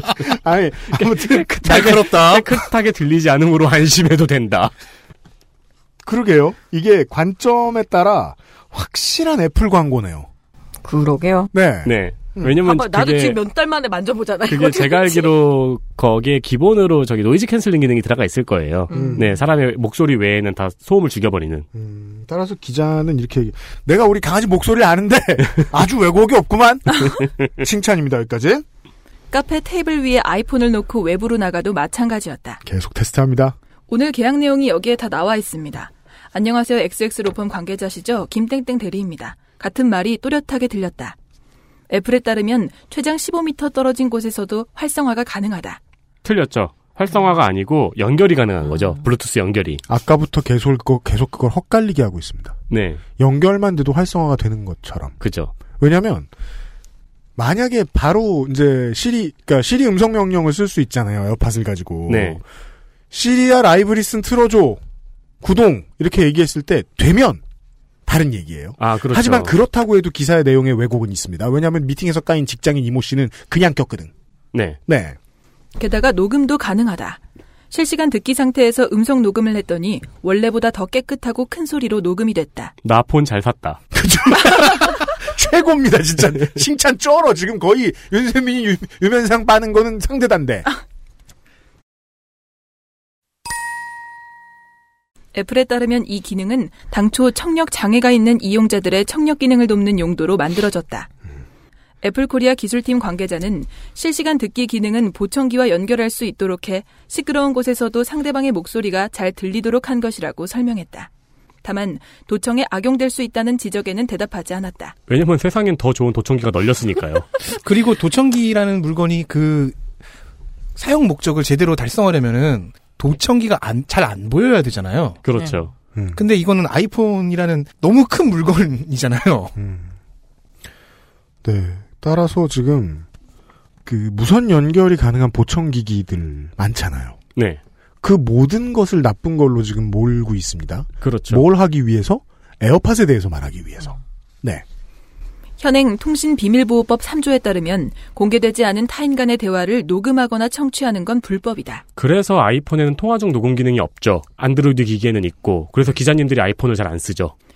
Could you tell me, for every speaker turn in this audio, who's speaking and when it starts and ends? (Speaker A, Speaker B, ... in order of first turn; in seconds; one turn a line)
Speaker A: 0.2-2.2
Speaker B: 1.6-4.7
Speaker C: 1.6-2.5
Speaker A: 6.0-10.3
Speaker D: 10.8-11.5
Speaker A: 11.5-12.5
Speaker B: 11.8-13.4
Speaker D: 12.6-15.3
Speaker B: 14.5-21.6
Speaker D: 18.9-19.3
Speaker A: 18.9-19.3
Speaker A: 21.7-28.6
Speaker E: 29.3-32.6
Speaker A: 32.6-33.5
Speaker E: 33.9-41.1
Speaker E: 41.9-45.8
Speaker B: 46.2-49.8
Speaker A: 49.9-52.5
Speaker B: 52.7-53.0
Speaker A: 53.2-55.1
Speaker B: 55.2-55.5
Speaker A: 55.8-56.3
Speaker A: 57.4-62.4
Speaker B: 62.1-62.4
Speaker A: 63.1-64.8
Speaker A: 65.4-67.4
Speaker A: 68.0-74.1
Speaker B: 68.8-69.5
Speaker A: 74.9-75.2
Speaker E: 75.8-77.2
Speaker E: 77.7-82.7
Speaker B: 82.8-83.8
Speaker A: 83.9-90.7
Speaker E: 95.3-101.1
Speaker E: 102.0-111.1
Speaker E: 111.6-114.9
Speaker B: 115.1-117.3
Speaker C: 117.5-119.8
Speaker C: 120.8-125.2
Speaker B: 125.2-125.7
Speaker A: 125.9-126.2
Speaker C: 126.1-129.6
Speaker A: 129.6-129.9
Speaker A: 131.4-133.0
Speaker A: 133.8-137.2
Speaker A: 138.0-144.6
Speaker B: 141.0-141.4
Speaker E: 145.6-151.8
Speaker B: 152.0-157.3